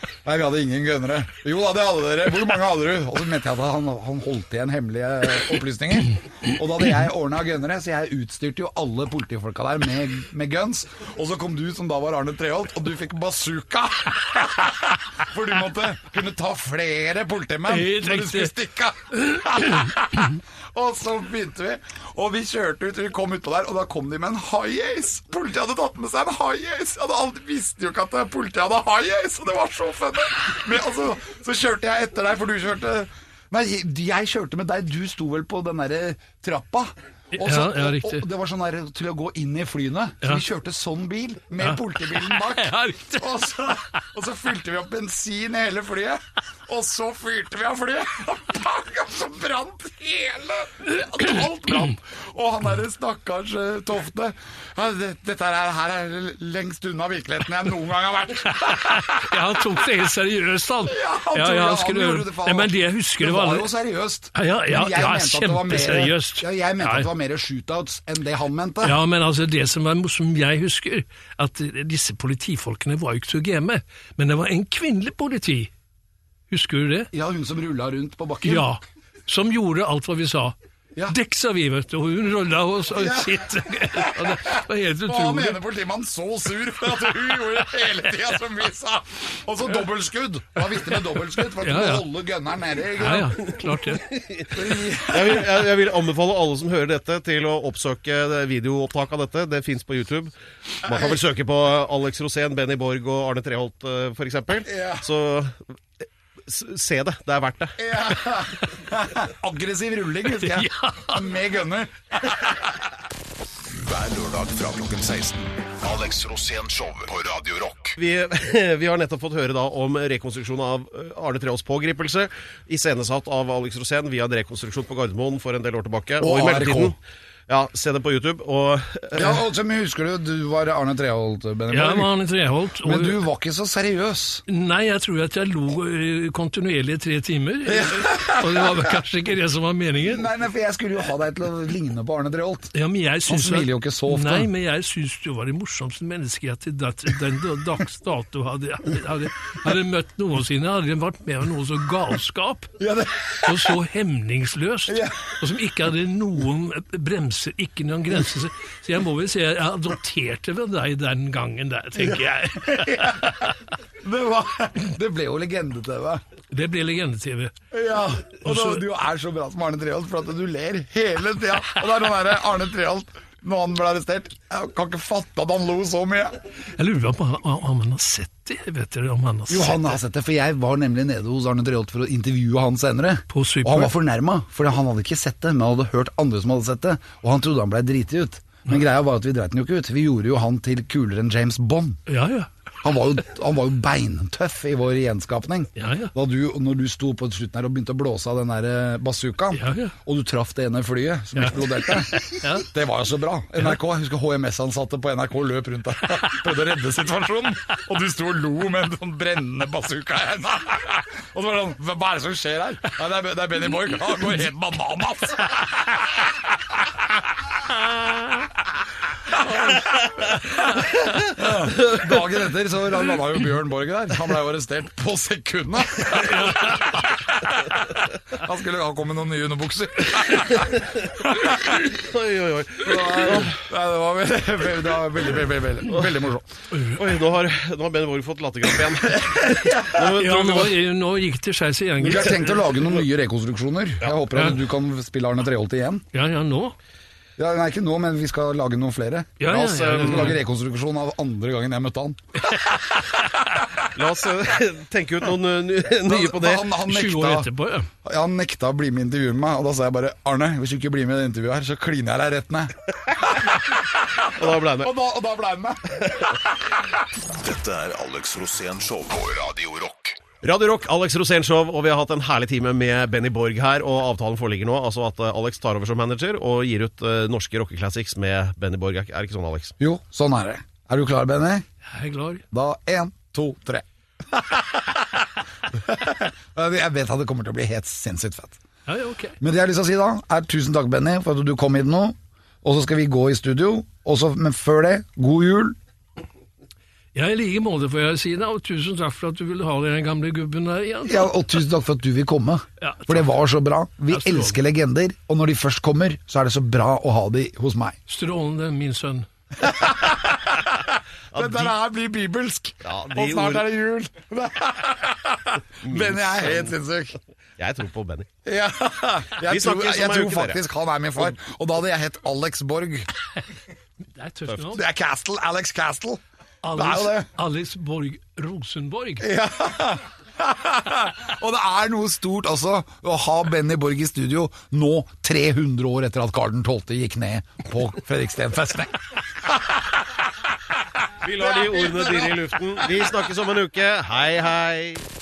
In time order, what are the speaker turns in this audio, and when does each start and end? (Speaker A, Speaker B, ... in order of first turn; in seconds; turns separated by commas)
Speaker A: 0.2-59.4, Speaker B: 17.7-18.6, Speaker B: 19.2-19.8, Speaker B: 37.3-38.2, Speaker B: 41.6-43.4, Speaker B: 58.5-63.7, Speaker A: 60.9-69.0, Speaker B: 64.3-67.1, Speaker B: 68.8-75.7, Speaker B: 76.5-77.1, Speaker A: 77.1-78.7, Speaker B: 78.4-80.5, Speaker B: 81.1-85.6, Speaker A: 82.9-93.5, Speaker B: 91.5-92.1, Speaker B: 92.9-94.1, Speaker C: 94.0-105.6, Speaker A: 94.5-95.7, Speaker A: 100.9-101.2, Speaker A: 104.6-105.0, Speaker C: 106.5-107.8, Speaker A: 107.8-112.6, Speaker B: 110.4-111.3, Speaker D: 113.7-118.0, Speaker C: 118.0-127.0, Speaker A: 126.2-126.9, Speaker C: 127.5-129.4, Speaker A: 129.1-132.1, Speaker B: 131.7-133.2, Speaker A: 132.8-134.4, Speaker B: 134.5-140.3, Speaker A: 137.7-139.0, Speaker A: 140.0-142.7, Speaker B: 142.7-152.8, Speaker A: 143.3-144.5, Speaker A: 152.8-153.8, Speaker B: 153.4-163.5, Speaker A: 154.9-155.3, Speaker A: 162.0-166.2, Speaker B: 166.5-167.5, Speaker A: 167.7-176.4, Speaker B: 168.4-168.8, Speaker B: 176.8-179.9, Speaker A: 179.5-192.0, Speaker B: 183.3-183.9, Speaker B: 192.1-192.5, Speaker A: 192.8-216.3, Speaker B: 195.8-196.1, Speaker B: 199.5-199.9, Speaker B: 201.3-202.7, Speaker A: 219.3-231.9, Speaker B: 226.1-227.1, Speaker C: 230.6-233.6, Speaker A: 232.8-236.5, Speaker B: 236.7-237.0, Speaker C: 236.8-240.7, Speaker A: 239.1-240.1, Speaker B: 240.1-242.9, Speaker A: 242.0-246.0, Speaker B: 244.3-244.6, Speaker B: 246.1-246.8, Speaker A: 247.4-253.7, Speaker B: 249.4-250.4, Speaker C: 249.9-250.3, Speaker C: 253.9-256.6, Speaker A: 256.0-257.5, Speaker B: 256.8-257.9, Speaker A: 258.0-266.9, Speaker C: 264.2-264.9, Speaker D: 267.2-270.2, Speaker C: 270.4-279.7, Speaker A: 279.8-281.6, Speaker B: 281.9-282.4, Speaker A: 282.5-288.6, Speaker B: 288.9-289.4, Speaker A: 289.4-295.8, Speaker B: 297.1-301.3, Speaker A: 301.1-307.9, Speaker B: 302.8-303.3, Speaker B: 304.1-304.6, Speaker B: 308.1-309.3, Speaker A: 309.6-317.1, Speaker C: 311.3-311.7, Speaker C: 312.8-313.7, Speaker C: 315.8-316.8, Speaker C: 317.6-318.3, Speaker A: 318.4-323.1, Speaker C: 319.4-320.6, Speaker B: 324.1-324.8, Speaker A: 324.6-326.2, Speaker B: 326.6-329.3, Speaker A: 326.7-327.3, Speaker A: 329.2-340.3, Speaker C: 341.2-345.1, Speaker A: 341.2-343.2